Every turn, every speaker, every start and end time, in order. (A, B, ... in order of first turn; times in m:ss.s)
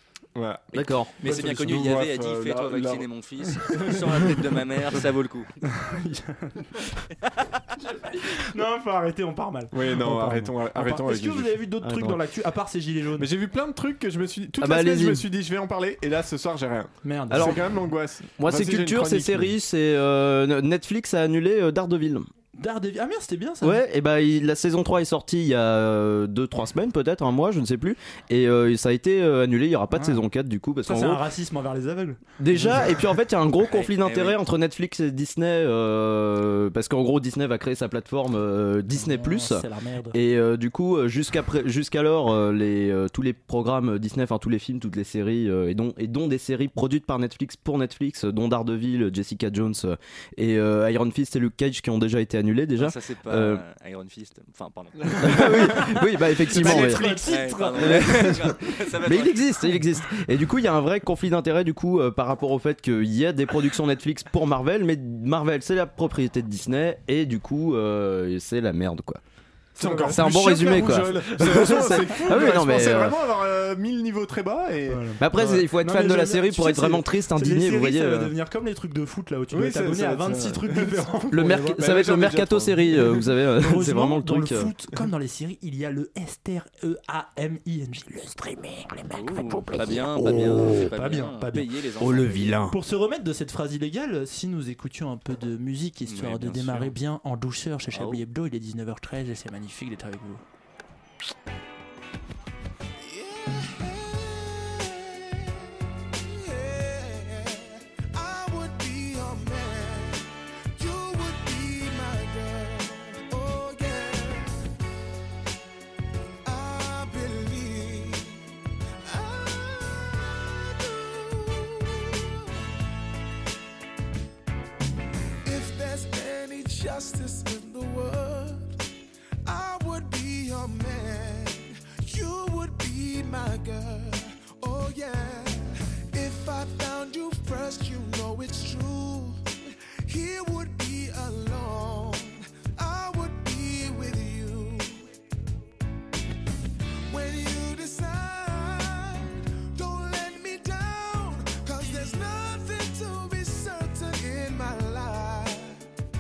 0:00.4-0:03.1 A
0:00.7-0:01.2 B
0:00.8-0:05.5 C
0:01.4-0:01.8 D
0:03.7-0:04.3 A
0:05.7-0:06.9 D
0:07.9-0:13.3 D
0:09.7-0:11.6 A
0:11.8-0:12.2 B
0:13.2-0:19.5 A
0:14.6-0:15.3 B
0:17.0-0:17.6 D
0:17.3-0:17.6 B
0:18.4-0:22.3 B
0:22.6-0:23.8 D
0:23.6-0:31.2 B
0:30.0-0:30.2 D
0:30.8-0:32.9 D
0:32.4-0:53.6 B
0:33.7-0:34.4 C
0:39.0-0:40.2 D
0:52.8-0:55.8 C
0:55.2-0:57.1 B
0:56.4-0:58.4 D
0:56.6-0:59.7 C
0:57.7-1:09.2 B
1:09.8-1:10.3 D
1:09.8-1:15.1 A
1:10.0-1:13.2 B
1:11.4-1:12.2 D
1:14.9-1:21.8 D
1:15.2-1:18.3 B
1:19.5-1:23.2 A
1:21.3-1:24.7 B
1:23.6-1:29.8 D
1:29.1-1:32.6 C
1:30.2-1:30.6 B
1:30.8-1:31.7 D
1:32.0-1:32.8 B
1:32.6-1:40.4 D
1:36.1-1:36.9 C
1:37.9-1:38.2 C
1:43.0-1:54.6 E
1:56.4-2:02.6 E
2:05.4-2:08.8 E
2:09.4-2:25.1 E
2:27.1-2:35.9 E